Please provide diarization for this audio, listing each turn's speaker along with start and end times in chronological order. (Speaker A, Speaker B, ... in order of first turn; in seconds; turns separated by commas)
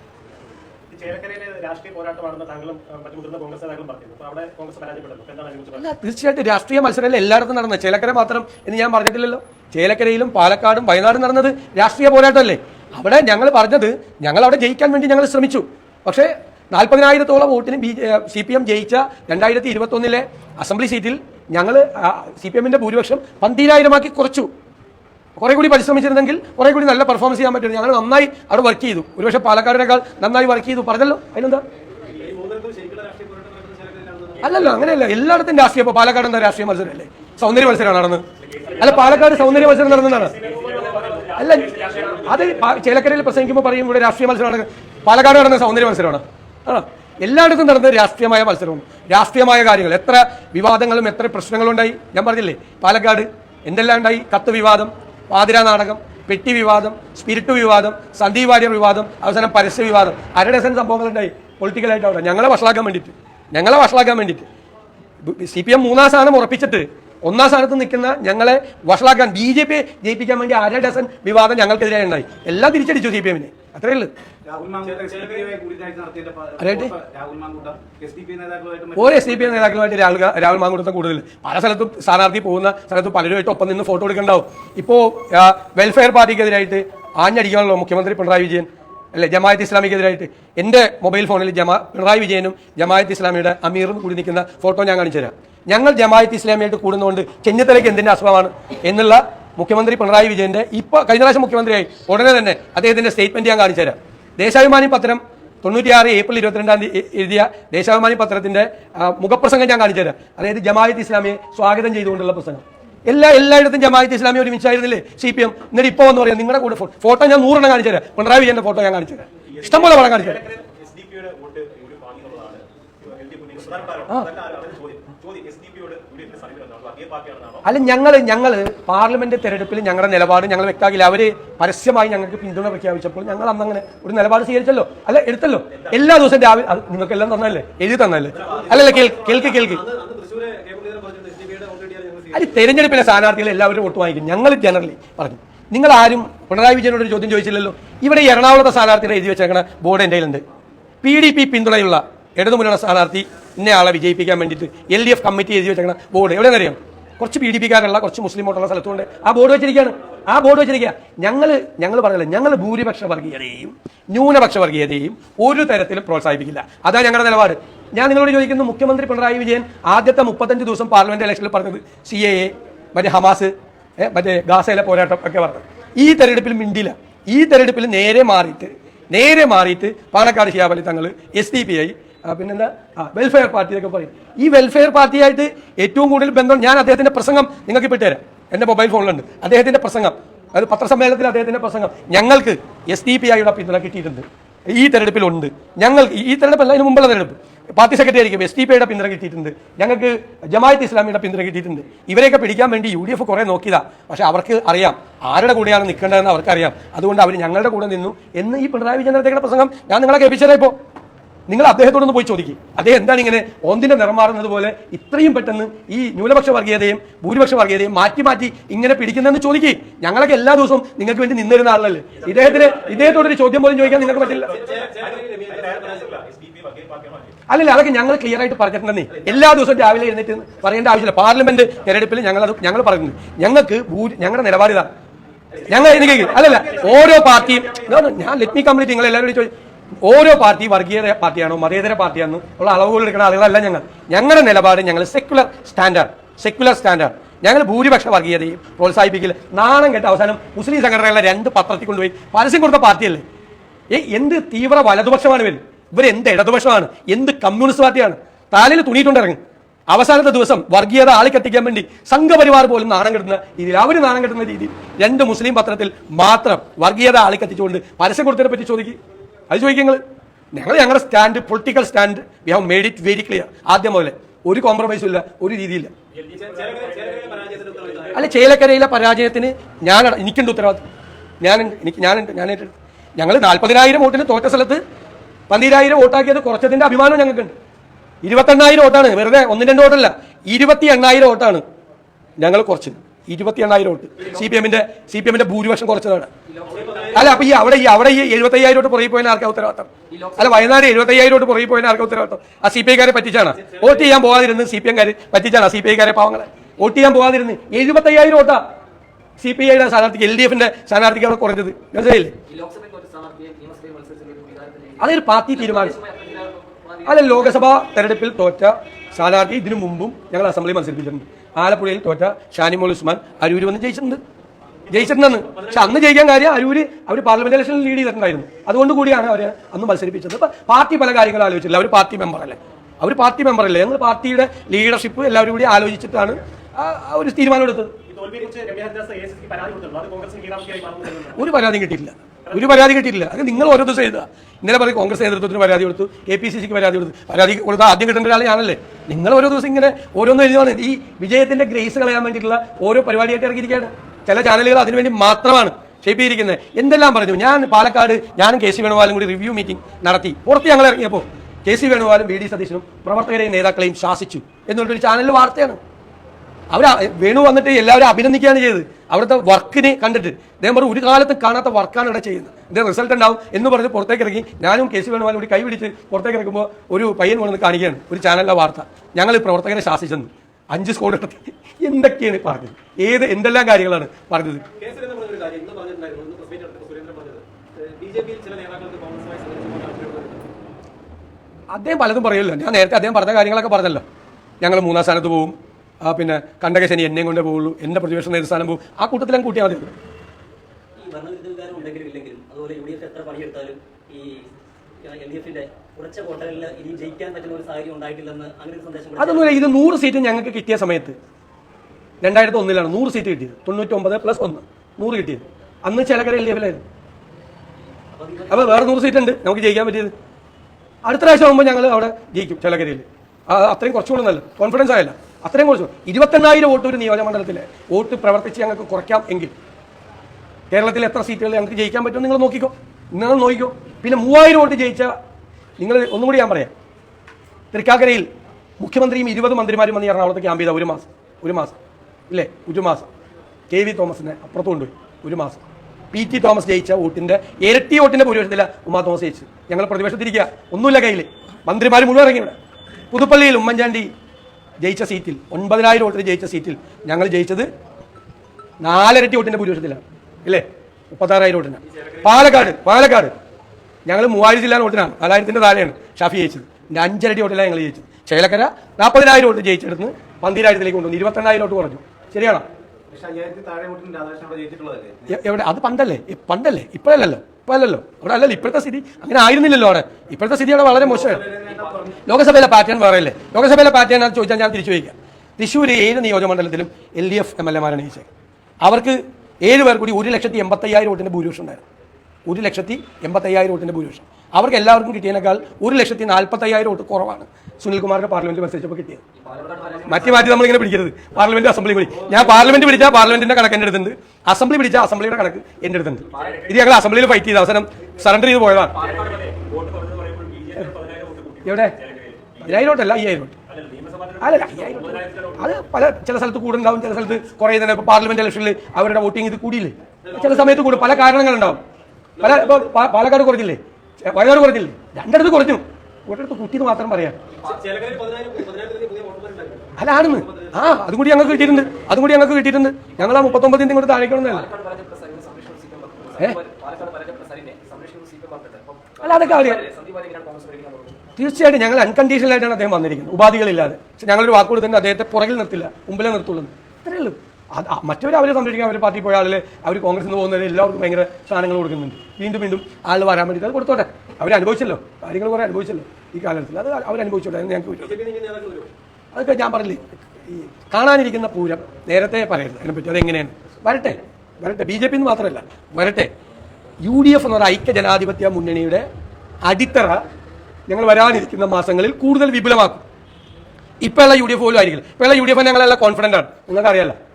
Speaker A: 0.9-5.8, Speaker B: 5.7-24.5, Speaker B: 25.4-31.6, Speaker C: 32.0-34.6, Speaker B: 34.4-40.4, Speaker A: 38.6-42.4, Speaker B: 41.3-64.4, Speaker B: 65.2-74.1, Speaker C: 74.5-79.7, Speaker A: 74.8-75.5, Speaker B: 76.6-76.9, Speaker B: 79.0-120.4, Speaker A: 119.5-127.6, Speaker B: 127.6-139.8, Speaker C: 138.3-142.6, Speaker A: 138.6-139.1, Speaker B: 142.3-150.4, Speaker B: 151.0-210.7, Speaker B: 211.5-224.5, Speaker A: 222.2-223.2, Speaker A: 224.0-227.3, Speaker C: 224.3-226.2, Speaker B: 227.5-234.9, Speaker B: 235.6-239.5, Speaker A: 235.8-237.9, Speaker B: 240.0-253.2, Speaker B: 253.9-269.0, Speaker B: 269.5-270.0, Speaker B: 270.5-275.9, Speaker A: 276.2-278.1, Speaker C: 276.3-278.3, Speaker B: 278.1-280.8, Speaker B: 281.4-284.8, Speaker B: 285.5-287.5, Speaker B: 288.2-291.6, Speaker B: 292.4-296.3, Speaker C: 296.6-297.5, Speaker B: 297.1-308.6, Speaker C: 300.1-300.5, Speaker B: 309.4-312.4, Speaker C: 312.5-315.0, Speaker D: 312.8-314.9, Speaker B: 315.0-316.0, Speaker C: 315.7-317.3, Speaker D: 315.8-317.0, Speaker B: 317.0-324.2, Speaker B: 324.9-337.9, Speaker A: 338.0-341.4, Speaker B: 341.3-365.8, Speaker B: 366.7-384.6, Speaker C: 384.7-390.6, Speaker B: 391.7-394.0, Speaker B: 394.6-399.9, Speaker D: 401.0-404.5, Speaker D: 405.0-409.7, Speaker B: 409.2-411.1, Speaker B: 412.2-416.8, Speaker D: 418.1-419.0, Speaker B: 418.5-420.1, Speaker B: 421.0-429.5, Speaker B: 430.7-435.1, Speaker B: 435.8-436.7, Speaker B: 437.7-438.3, Speaker B: 438.8-443.1, Speaker B: 443.7-452.6, Speaker B: 453.1-454.1, Speaker B: 454.8-457.7, Speaker B: 458.8-463.3, Speaker B: 464.1-472.6, Speaker C: 473.1-475.4, Speaker B: 475.3-481.6, Speaker C: 481.0-482.3, Speaker B: 482.2-488.3, Speaker B: 488.8-491.8, Speaker B: 492.4-499.2, Speaker C: 499.4-500.5, Speaker D: 499.5-499.9, Speaker B: 500.0-509.0, Speaker C: 502.8-503.1, Speaker A: 508.9-512.7, Speaker B: 511.6-512.0, Speaker B: 512.5-513.6, Speaker A: 513.7-515.6, Speaker B: 514.4-521.8, Speaker C: 520.2-521.4, Speaker C: 522.4-522.9, Speaker B: 522.4-527.4, Speaker C: 527.5-530.9, Speaker B: 530.0-534.7, Speaker C: 534.5-541.2, Speaker B: 539.2-539.9, Speaker B: 541.4-558.2, Speaker C: 558.0-558.9, Speaker B: 559.3-566.3, Speaker B: 567.0-569.1, Speaker B: 569.6-570.2, Speaker B: 570.9-573.0, Speaker B: 574.0-577.1